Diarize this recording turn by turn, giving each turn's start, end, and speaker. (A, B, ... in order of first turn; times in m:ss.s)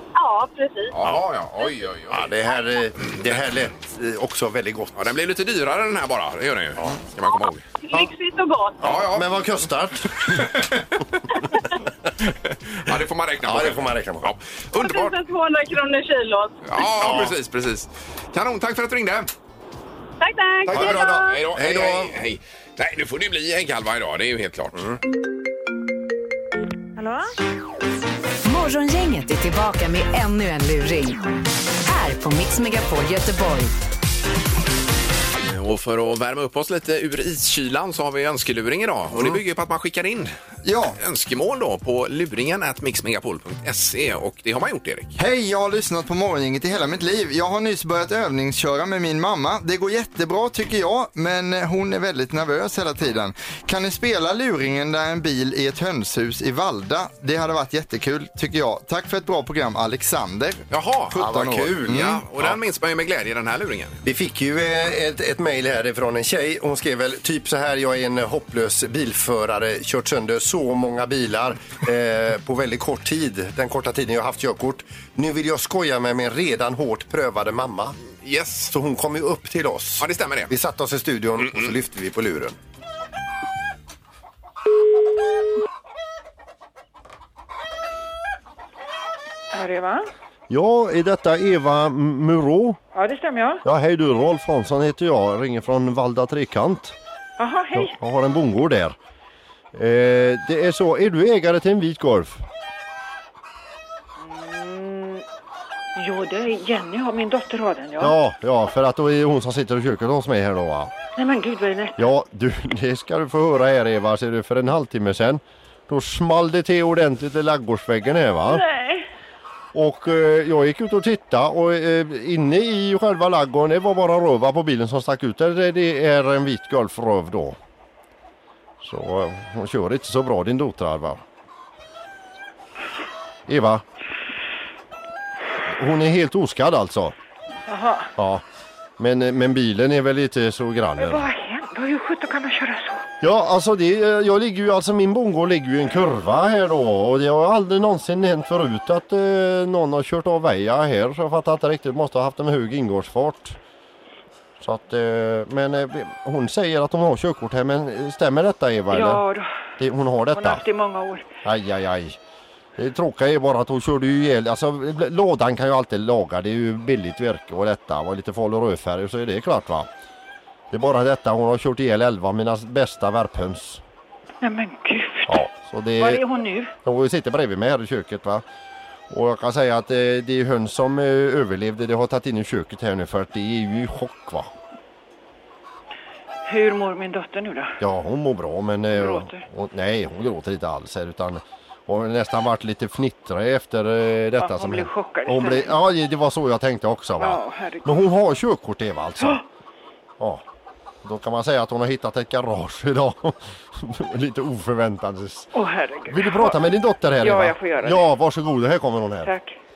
0:00.2-0:00.9 A
0:00.9-0:02.3 B
0:02.1-0:05.1 C
0:05.0-0:07.6 B
0:07.8-0:08.8 A
0:08.8-0:10.3 C
0:08.8-0:09.4 B
0:10.2-0:11.0 B
0:12.3-0:15.2 B
0:13.4-0:14.3 C
0:14.7-0:16.8 A
0:16.6-0:19.3 B
0:17.0-0:17.4 C
0:20.2-0:21.4 A
0:20.7-0:24.8 B
0:20.7-0:22.1 C
0:28.4-0:31.2 D
0:31.8-0:33.7 D
0:35.4-0:40.3 B
0:39.1-0:39.4 C
0:40.6-0:41.0 E
0:41.0-0:45.2 B
0:45.2-1:02.2 E
1:00.7-1:04.0 B
1:01.2-1:02.6 C
1:04.0-1:18.0 C
1:18.2-1:18.7 B
1:18.7-1:22.6 C
1:20.0-1:20.5 B
1:21.4-1:21.7 B
1:29.5-1:30.1 F
1:30.5-1:32.8 G
1:32.9-1:33.6 F
1:33.6-1:36.9 G
1:37.4-1:37.9 F
1:37.7-1:38.9 G
1:39.7-1:42.4 G
1:44.2-1:45.2 F
1:46.0-1:48.1 F
1:48.0-1:50.9 G
1:51.2-1:52.1 F
1:52.0-1:58.6 G
1:58.4-1:59.0 F
1:59.7-2:07.6 G
2:08.8-2:11.2 G
2:13.5-2:13.8 G
2:15.7-2:17.1 G
2:17.7-2:18.1 F
2:18.2-2:18.4 G
2:19.0-2:21.2 G
2:21.0-2:23.0 F
2:23.2-2:33.6 G
2:34.6-2:39.2 G
2:38.9-2:39.6 F
2:39.8-2:40.6 G
2:40.3-2:41.2 F
2:41.4-2:42.2 G
2:42.8-2:49.9 G
2:50.7-2:53.8 G
2:54.4-2:55.5 F
2:55.3-2:56.2 G
2:56.0-2:56.7 F
2:56.8-2:58.4 G
2:59.1-3:04.5 G
3:06.5-3:07.8 F
3:07.8-3:19.4 G
3:08.9-3:09.4 F
3:14.4-3:15.7 F
3:17.2-3:18.0 F
3:21.0-3:25.5 G
3:25.5-3:26.6 F
3:26.1-3:29.3 G
3:27.2-3:28.0 F
3:29.2-3:29.6 F